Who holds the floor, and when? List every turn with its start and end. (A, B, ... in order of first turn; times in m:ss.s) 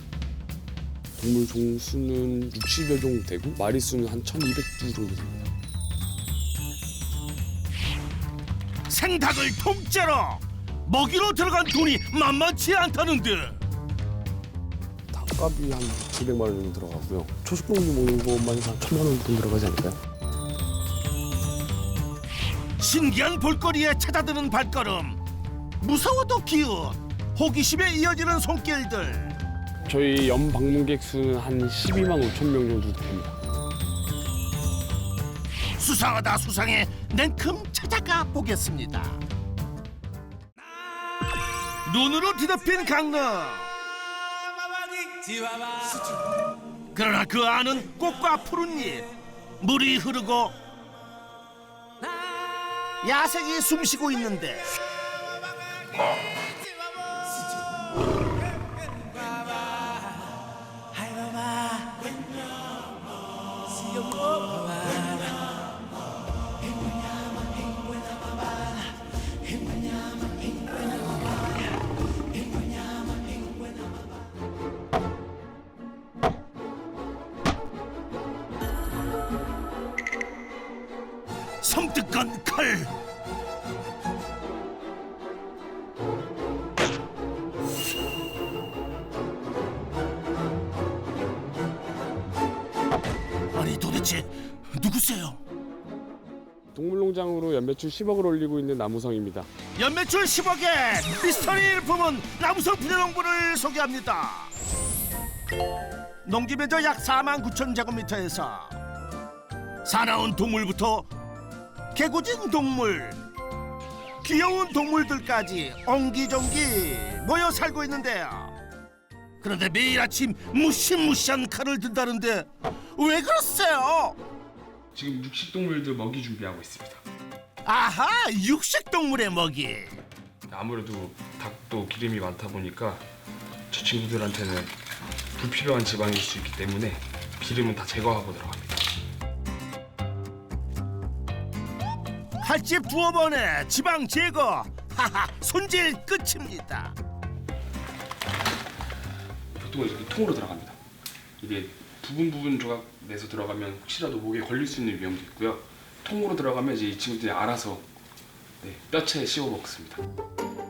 0:01.2-0:05.5 A
0:08.9-0:13.6 B
0:15.1-0:20.0 A
0:22.8-0:25.2 B
0:25.8-0:29.3 B
0:29.8-0:33.4 A
0:35.8-0:39.2 B
0:41.8-0:43.7 B
0:46.9-0:49.1 B
0:49.6-0:50.5 B
0:53.0-0:54.7 B
1:21.6-1:22.9 B
1:33.5-1:35.4 B
1:36.7-1:39.5 A
1:39.8-1:44.5 B
1:46.2-1:48.7 B
1:49.8-1:51.1 B
1:51.9-1:53.2 B
1:54.2-1:58.5 B
1:59.4-2:04.2 B
2:04.9-2:07.0 A
2:07.6-2:09.9 B
2:10.5-2:13.0 A
2:13.7-2:14.7 A
2:15.3-2:18.8 A
2:22.4-2:27.0 B
2:29.6-2:30.8 A
2:31.4-2:37.8 A
2:38.6-2:40.0 A